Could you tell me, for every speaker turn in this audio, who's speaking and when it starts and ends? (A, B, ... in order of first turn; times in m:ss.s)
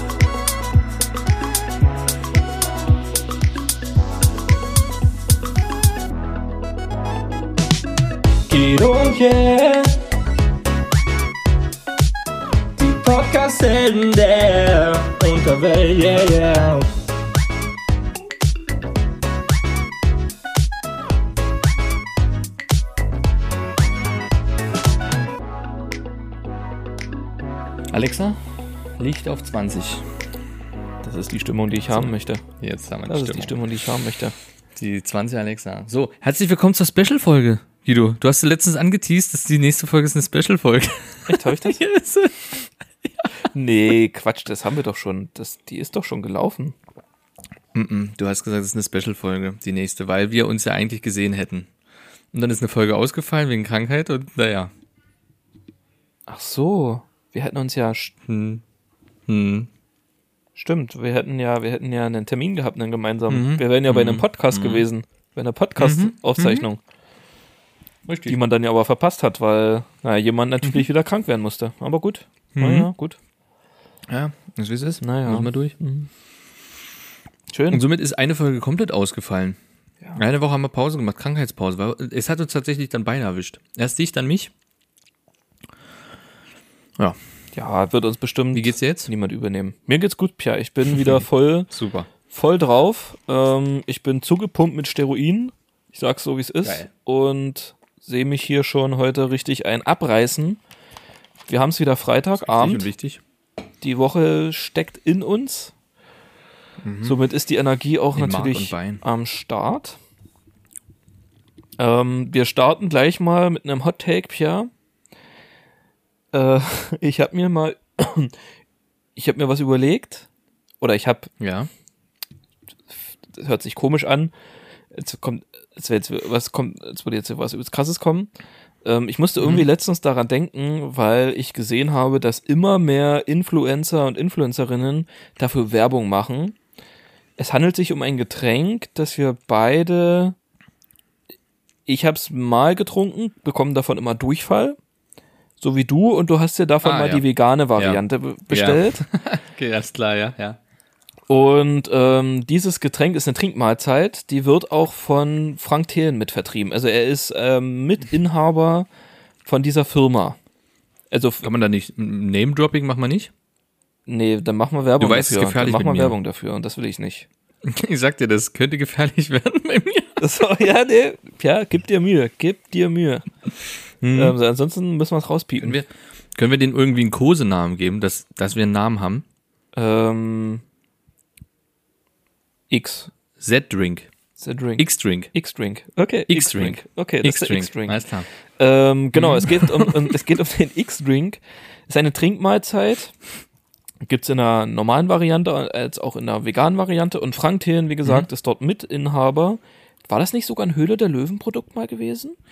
0:08.5-0:10.0 A
0:12.8-0:16.9 A
0:27.9-0:28.4 B
0:29.0-0:30.0 B
0:31.0-0:32.4 C
0:31.9-0:33.6 B
0:33.1-0:34.3 C
0:34.7-0:43.3 B
0:41.3-0:41.8 C
0:43.5-0:46.8 C
0:47.7-0:51.7 B
0:52.3-0:54.7 B
0:56.3-0:58.1 C
0:58.3-0:58.6 B
0:59.3-0:59.7 B
1:00.6-1:06.8 C
1:03.3-1:04.8 B
1:05.8-1:06.6 B
1:08.0-1:08.4 B
1:08.3-1:13.2 C
1:12.5-1:12.9 B
1:14.1-1:15.7 B
1:15.0-1:16.1 C
1:17.5-1:17.8 C
1:17.7-1:19.6 B
1:20.2-1:24.5 B
1:27.5-1:31.7 C
1:28.5-1:29.1 B
1:31.7-1:32.1 B
1:32.3-1:40.6 C
1:36.6-1:36.9 B
1:41.5-1:42.9 C
1:42.4-1:43.2 B
1:43.8-1:45.7 C
1:46.8-1:47.2 B
1:47.0-1:50.0 C
1:48.1-1:49.0 B
1:51.8-1:54.7 C
1:56.3-1:58.3 C
1:59.2-2:00.3 C
2:00.8-2:01.3 C
2:01.4-2:01.7 B
2:03.3-2:04.3 C
2:04.9-2:08.3 C
2:08.8-2:16.6 C
2:09.4-2:09.6 B
2:17.4-2:20.4 C
2:21.9-2:24.8 C
2:25.6-2:29.0 C
2:26.8-2:27.2 B
2:27.8-2:30.6 B
2:31.3-2:38.9 C
2:39.4-2:40.4 C
2:41.1-2:41.4 C
2:41.4-2:43.3 B
2:44.1-2:47.3 C
2:45.0-2:46.2 B
2:47.6-2:50.2 B
2:50.2-2:53.3 C
2:54.0-2:54.4 B
2:54.1-2:55.8 C
2:55.6-2:59.2 B
2:59.7-3:00.6 C
3:02.7-3:03.1 C
3:03.4-3:04.1 B
3:04.4-3:08.0 C
3:04.8-3:05.3 B
3:06.3-3:08.3 B
3:08.6-3:13.1 C
3:09.1-3:10.2 B
3:14.0-3:22.4 C